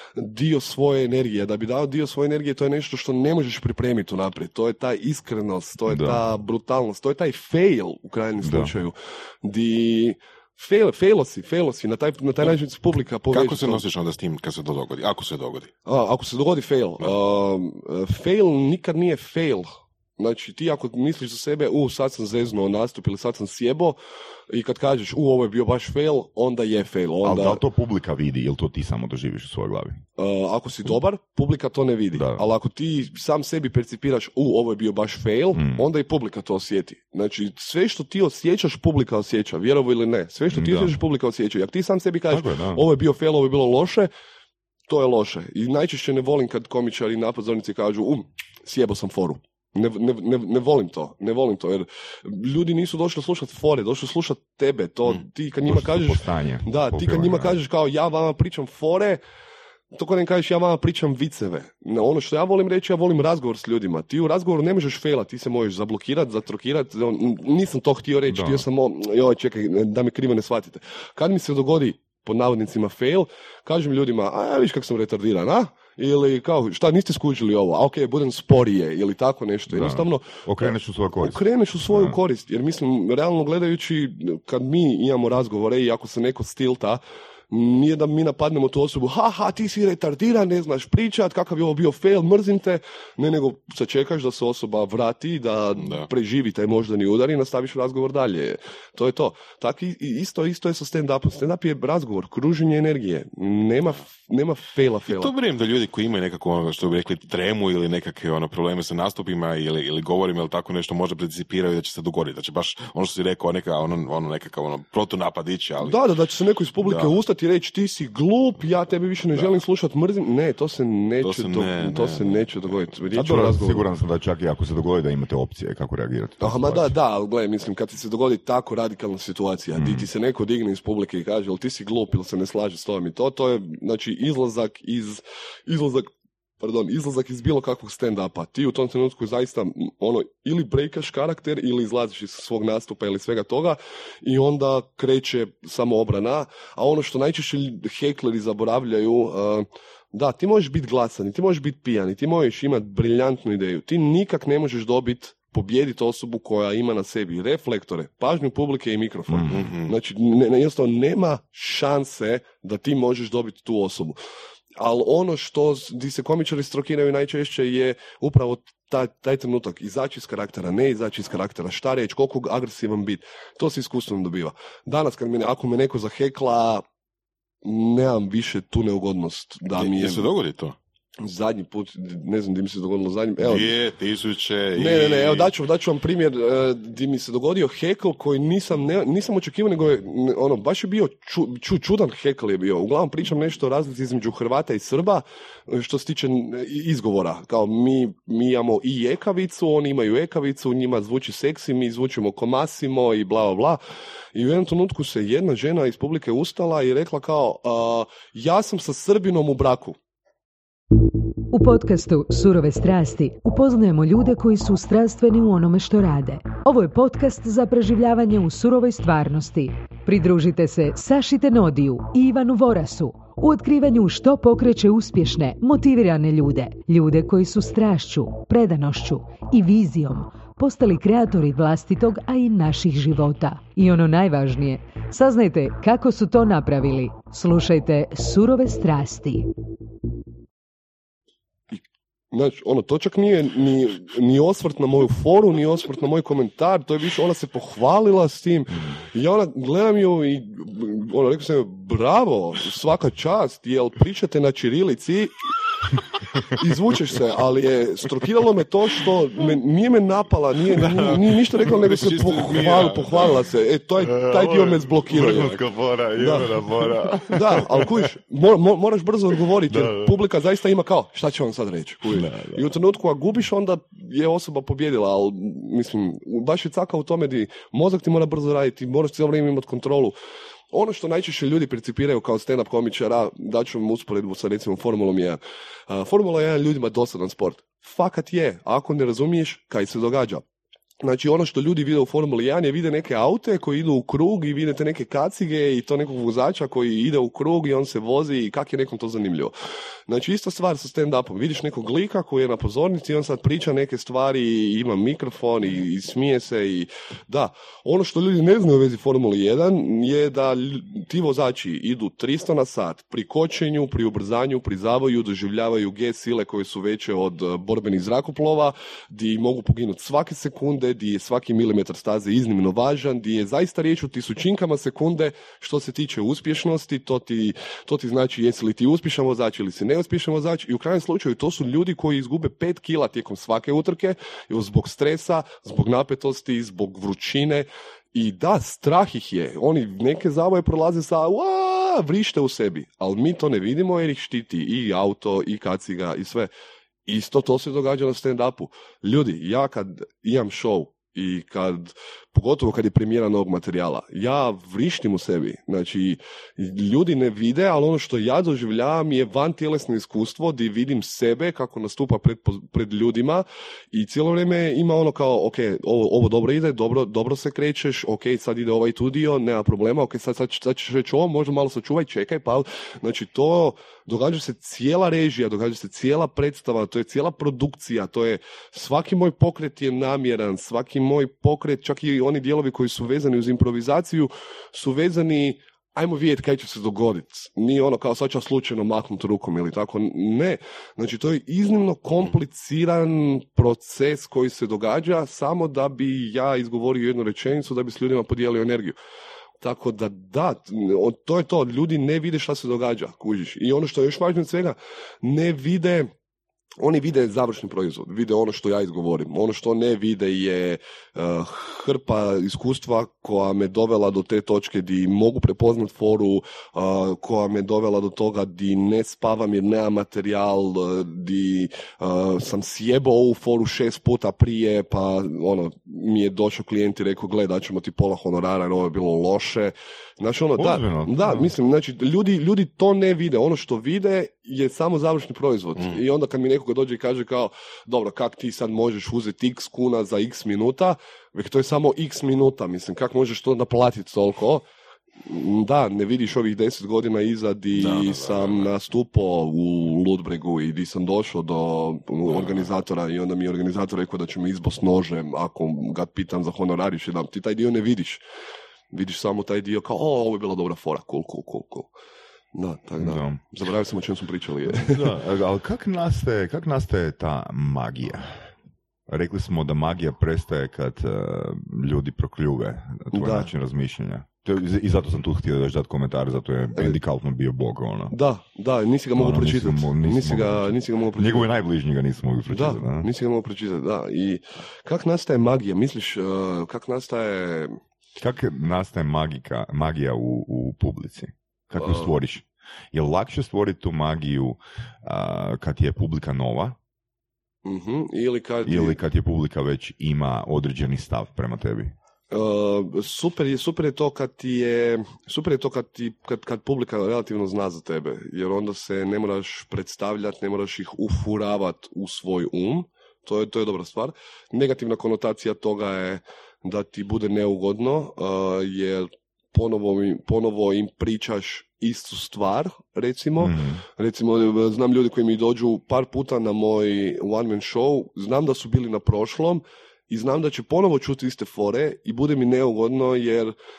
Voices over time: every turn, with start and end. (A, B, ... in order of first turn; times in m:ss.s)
0:00.2-0:13.8 A
0:05.9-0:06.2 B
0:08.4-0:08.7 B
0:13.3-0:15.7 C
0:15.8-0:24.0 A
0:24.5-0:27.6 A
0:27.2-0:30.0 B
0:30.2-0:44.1 A
0:32.1-0:32.4 B
0:35.5-0:35.8 B
0:40.5-0:41.0 B
0:42.3-0:42.8 B
0:44.9-0:59.2 A
0:55.7-0:57.6 B
0:59.9-1:45.3 A
1:08.3-1:08.6 B
1:19.7-1:22.2 B
1:35.8-1:36.1 C
1:45.1-1:56.0 C
1:55.8-2:03.8 A
1:56.8-1:57.1 C
2:01.2-2:02.9 C
2:03.1-2:06.9 B
2:06.4-2:44.2 A
2:09.8-2:10.1 B
2:39.3-2:39.7 B
2:39.5-2:39.9 C
2:44.8-2:56.8 A
2:57.6-3:00.3 A
2:59.7-3:00.8 C
3:01.2-3:03.7 A
3:03.4-3:05.5 C
3:04.8-3:23.8 A
3:24.3-3:30.0 A
3:31.5-3:59.5 D
4:02.3-4:15.4 A
4:16.5-4:25.6 A
4:21.6-4:23.4 C
4:24.0-4:28.0 B
4:26.2-4:26.5 A
4:27.2-4:40.2 A
4:29.7-4:30.2 B
4:32.1-4:32.7 B
4:40.7-4:50.4 A
4:51.0-4:59.5 A
5:00.1-5:46.5 A
5:47.0-6:39.0 A
6:39.6-6:46.1 A
6:46.8-7:24.6 A
7:10.6-7:11.5 B
7:25.2-7:38.2 A
7:27.8-7:28.7 C
7:32.3-7:32.7 C
7:38.9-7:41.9 A
7:42.5-7:45.1 A
7:43.0-7:43.4 B
7:44.7-7:48.4 B
7:49.1-7:58.1 B
7:53.1-7:53.5 A
7:58.1-8:01.5 A
7:59.2-8:03.1 B
8:02.5-8:07.8 A
8:08.2-8:16.8 B
8:11.8-8:12.1 A
8:17.6-8:19.0 A
8:18.6-8:21.9 B
8:22.3-8:53.5 A
8:43.4-8:43.8 B